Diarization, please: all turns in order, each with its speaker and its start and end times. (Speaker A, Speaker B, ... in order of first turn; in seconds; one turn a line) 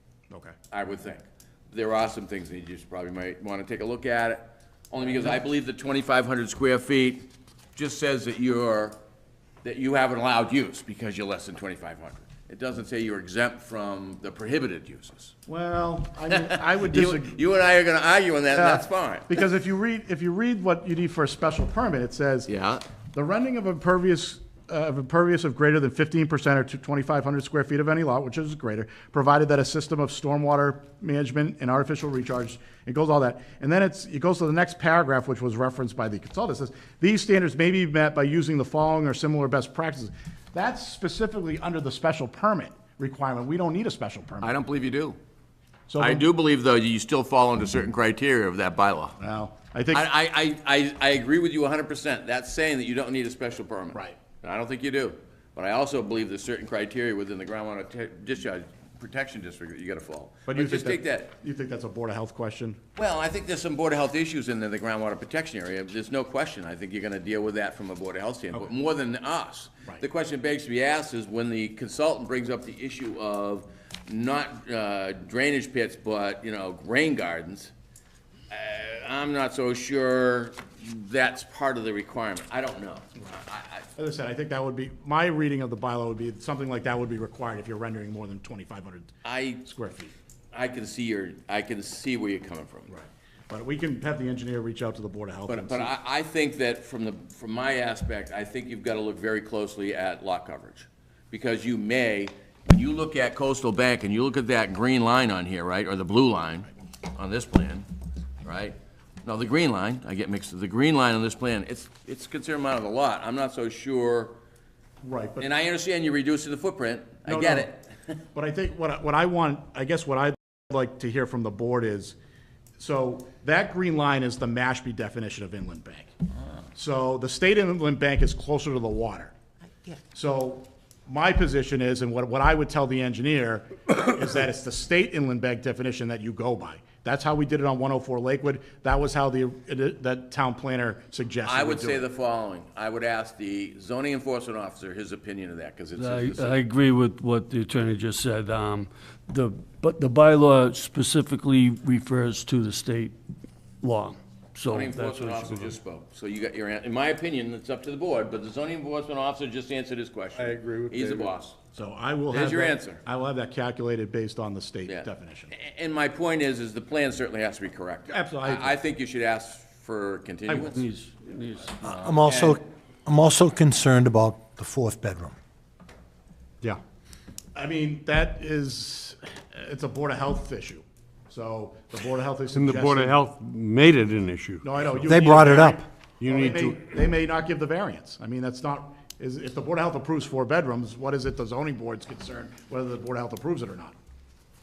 Speaker A: 0.3-0.5
Speaker B: 0.7-9.0
Speaker B: 9.6-15.3
Speaker A: 15.5-17.4
Speaker B: 16.4-19.4
Speaker A: 18.5-22.5
Speaker B: 22.5-22.8
Speaker A: 23.1-44.5
Speaker B: 44.4-45.2
Speaker A: 45.9-46.2
Speaker B: 46.0-49.1
Speaker A: 49.2-50.0
Speaker B: 49.9-61.3
Speaker A: 60.5-62.8
Speaker B: 63.0-77.7
Speaker B: 78.5-83.9
Speaker A: 84.0-90.1
Speaker B: 89.2-89.6
Speaker B: 90.5-92.9
Speaker A: 92.9-95.9
Speaker B: 95.5-107.9
Speaker B: 108.4-114.3
Speaker A: 115.0-115.5
Speaker B: 115.4-117.9
Speaker A: 117.2-117.7
Speaker A: 118.3-122.2
Speaker A: 122.8-126.1
Speaker A: 126.7-129.3
Speaker A: 130.1-142.0
Speaker B: 141.4-146.6
Speaker C: 146.0-153.2
Speaker C: 153.8-155.8
Speaker B: 154.7-161.6
Speaker D: 160.3-161.3
Speaker A: 161.7-165.5
Speaker B: 162.3-163.0
Speaker B: 164.9-170.8
Speaker A: 168.1-168.7
Speaker A: 170.5-170.7
Speaker C: 170.5-172.2
Speaker E: 171.8-175.3
Speaker B: 172.0-172.6
Speaker A: 177.5-183.2
Speaker D: 182.5-185.0
Speaker A: 184.6-193.9
Speaker E: 185.1-185.8
Speaker D: 186.2-186.8